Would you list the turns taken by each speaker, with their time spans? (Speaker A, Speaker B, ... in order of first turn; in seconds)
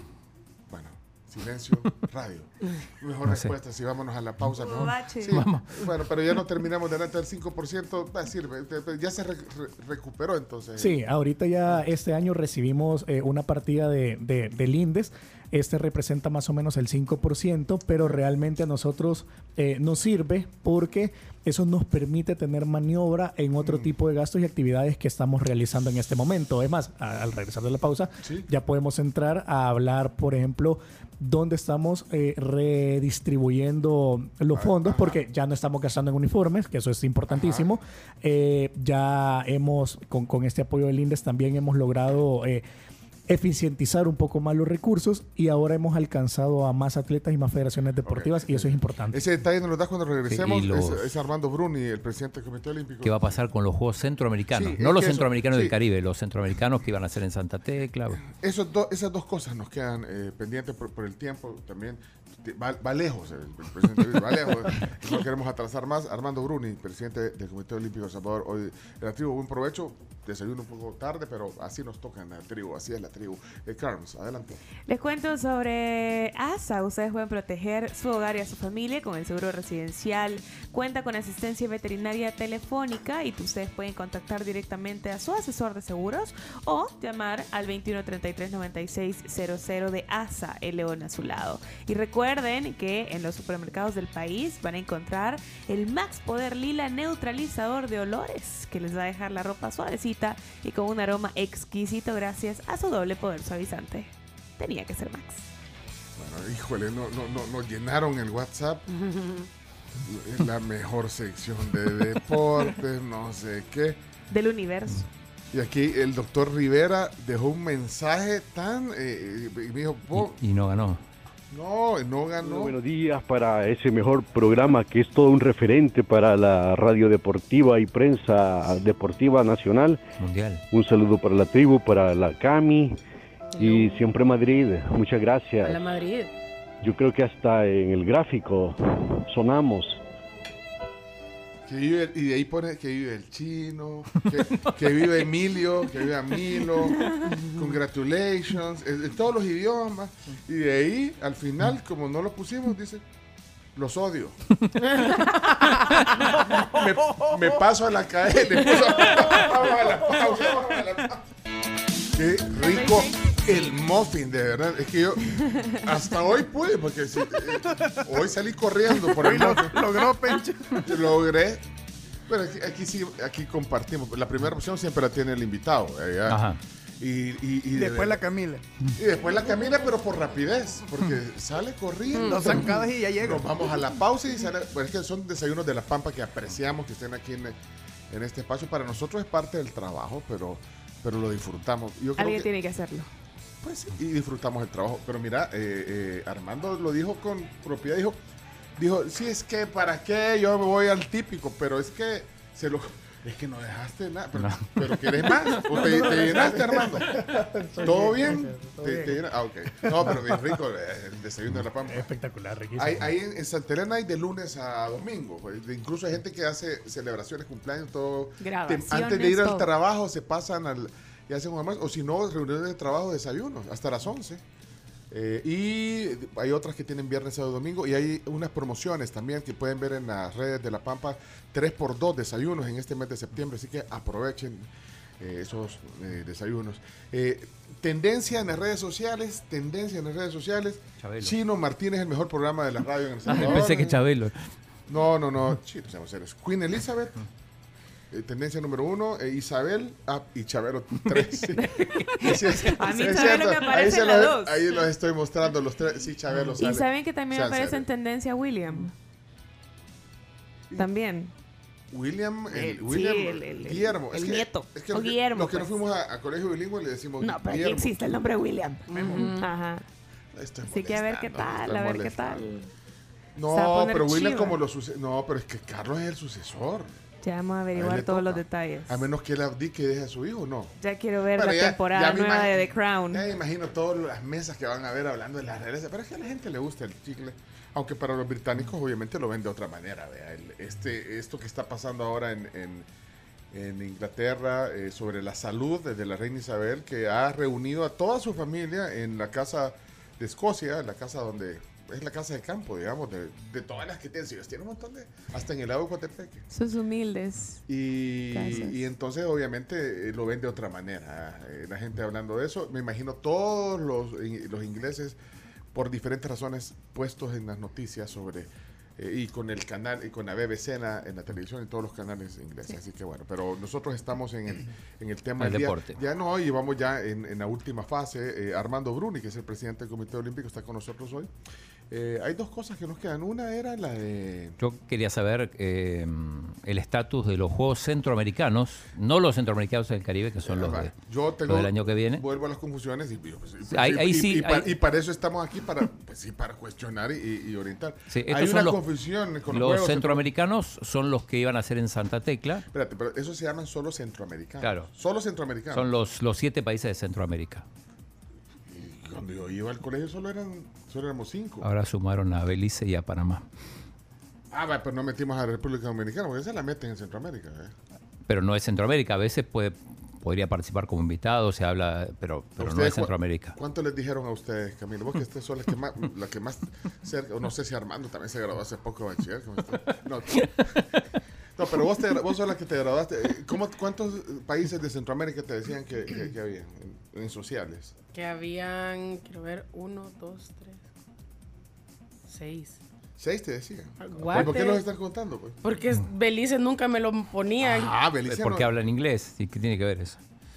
Speaker A: 0.7-11.0, 23.6-23.9, 34.5-35.2, 37.3-37.6, 48.0-53.4, 54.5-55.7, 58.2-74.6, 106.2-108.9, 110.0-114.0, 115.5-120.4, 121.5-122.7, 141.7-153.0, 153.8-154.3, 156.3-161.2, 162.1-170.0, 170.7-171.6, 172.3-176.5, 177.0-178.2, 178.9-187.5, 188.1-192.5, 193.6-198.2, 198.8-212.1, 212.8-224.4, 225.1-234.7, 235.2-244.0, 244.9-247.2, 248.1-257.9, 261.9-268.1, 270.3-272.4, 273.4-276.9, 277.7-280.7, 281.3-292.9, 293.5-306.5, 307.7-315.2, 315.7-331.3, 331.9-334.6, 340.4-350.3, 352.7-355.9, 358.7-361.7, 364.5-367.7, 372.6-380.9, 381.6-387.9, 393.2-395.6, 397.6-398.7
Speaker B: 3.2-3.5, 5.3-5.9, 50.3-51.1, 53.0-58.2, 120.1-121.0, 130.2-130.6, 176.2-176.6, 204.4-205.6, 241.0-241.3, 243.3-244.4, 325.4-326.0, 334.6-340.9, 341.4-342.2, 343.7-344.7, 348.1-348.8, 349.5-352.6, 354.6-354.9, 355.7-357.6, 361.6-363.5, 368.2-373.6, 380.6-381.0, 398.2-400.2
Speaker C: 4.5-5.4, 74.8-105.5, 114.3-115.1, 146.9-147.4, 162.6-163.1, 192.2-193.1, 218.4-219.7, 251.5-254.9, 256.5-258.9, 260.7-261.3, 262.5-265.8, 267.2-269.9, 270.6-272.7, 273.5-274.6, 277.2-279.1, 280.8-283.2, 306.5-307.6, 308.3-308.8
Speaker D: 10.8-42.6, 43.3-49.2, 205.8-209.2, 209.8-210.3, 211.9-213.1
Speaker E: 109.0-109.5, 133.6-134.0, 135.6-136.3, 182.1-182.6, 268.9-269.3, 388.1-390.8, 392.3-392.8, 394.0-394.8, 395.6-397.9
Speaker F: 122.4-130.0, 130.7-133.0, 133.6-135.8, 136.8-140.0
Speaker G: 156.6-157.2, 167.6-168.0, 169.0-170.8, 177.7-178.6, 182.2-183.8, 268.9-269.4